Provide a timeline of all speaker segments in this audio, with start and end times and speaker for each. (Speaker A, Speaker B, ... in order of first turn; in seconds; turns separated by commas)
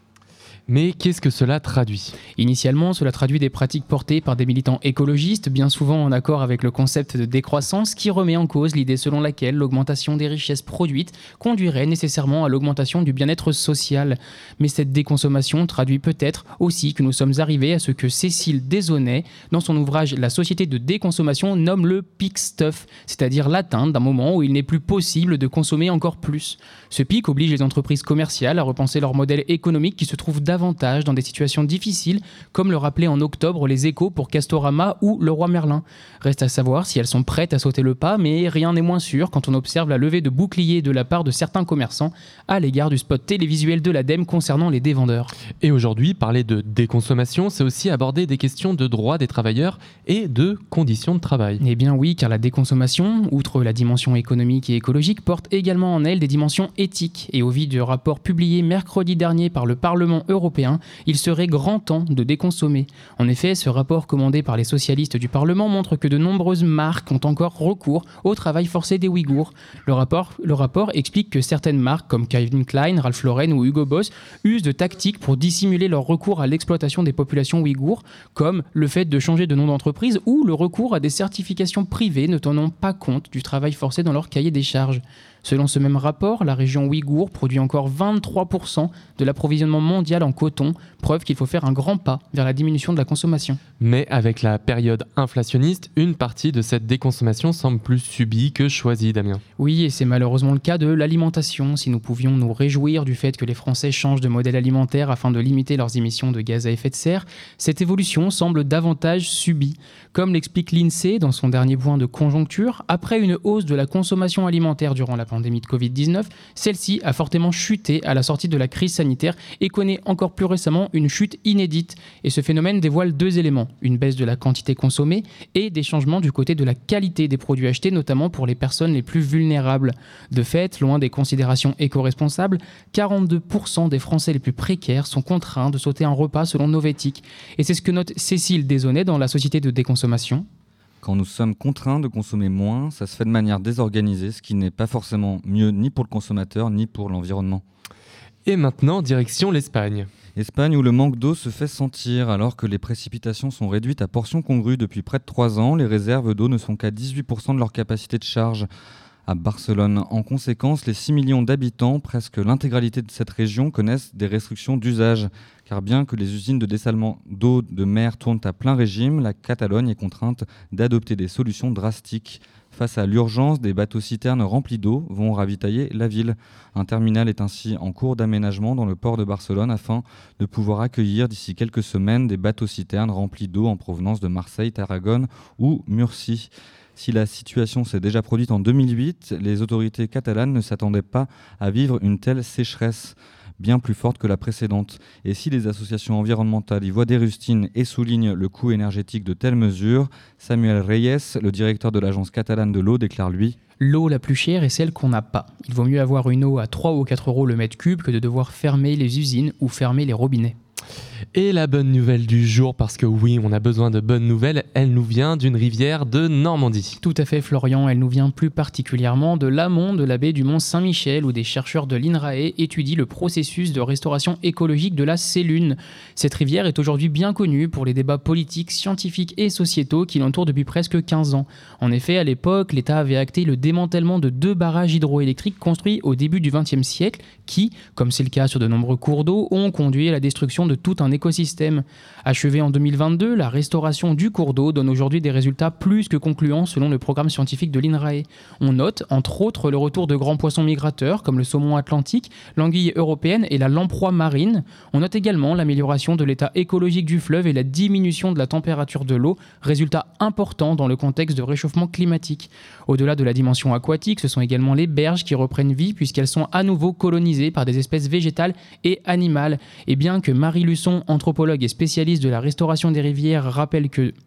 Speaker A: 0.7-2.2, Speaker B: 2.4-45.3, Speaker A: 45.6-51.6, Speaker B: 51.6-93.6, Speaker A: 93.8-99.4, Speaker B: 99.6-140.5, Speaker C: 141.0-147.6, Speaker A: 148.5-150.1, Speaker C: 150.4-158.7, Speaker C: 159.3-203.6, Speaker B: 203.8-210.6, Speaker A: 211.3-217.0, Speaker B: 217.0-274.1